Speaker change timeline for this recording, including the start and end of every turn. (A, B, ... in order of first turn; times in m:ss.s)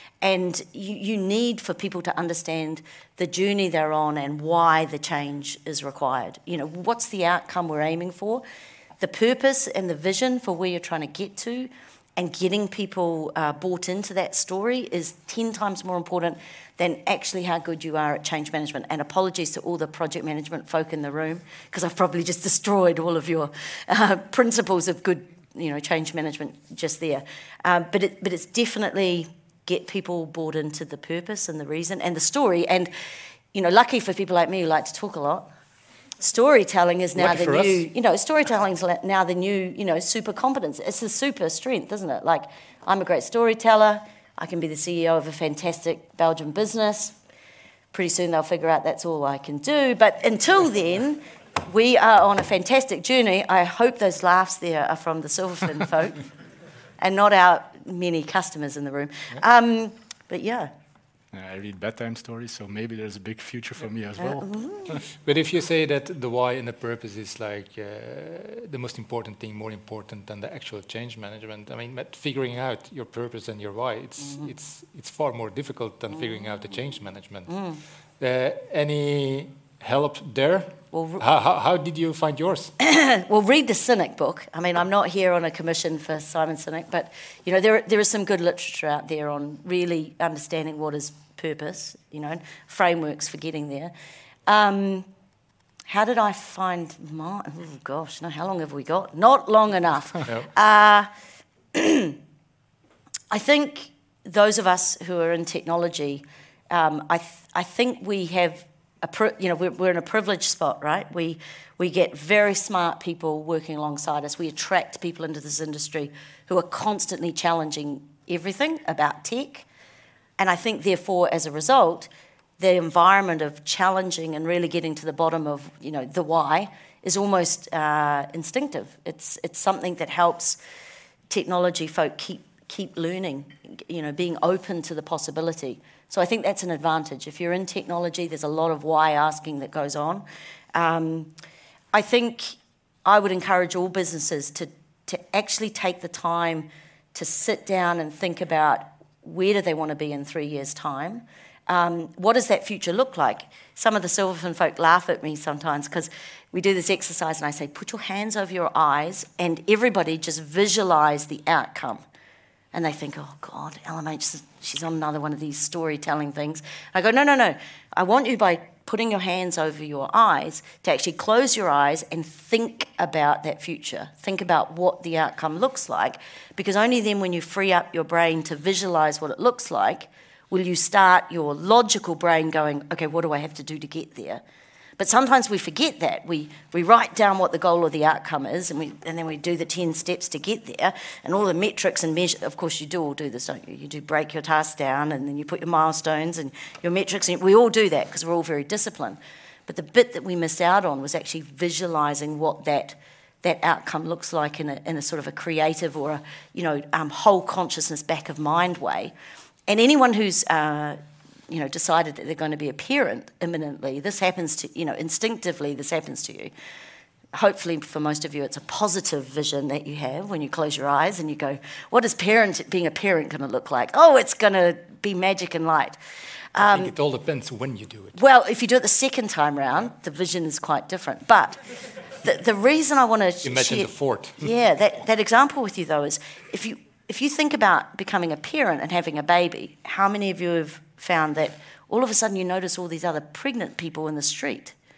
0:00.2-0:08.4 A
0:09.0-0:32.9 A
0:33.5-0:35.5 A
0:36.2-0:47.2 A
0:37.2-0:37.8 B
0:47.9-0:56.3 A
0:57.0-1:00.7 A
1:01.3-1:04.9 C
1:04.2-1:05.0 A
1:05.1-1:17.6 B
1:17.5-1:17.8 A
1:18.2-1:22.7 B
1:20.9-1:21.2 A
1:22.8-1:33.9 A
1:34.5-1:35.1 A
1:35.9-1:41.1 A
1:41.7-1:42.2 A
1:43.3-1:59.7 A
2:00.4-2:10.6 A
2:11.3-2:21.3 A
2:21.9-2:42.0 A
2:42.7-3:04.4 A
3:05.0-3:29.1 A
3:29.7-3:31.0 A
3:31.5-3:36.5 A
3:37.3-3:46.0 A
3:46.6-3:46.9 A
3:46.7-3:48.2 B
3:48.2-3:51.6 A
3:52.2-4:04.8 A
3:53.4-3:54.5 B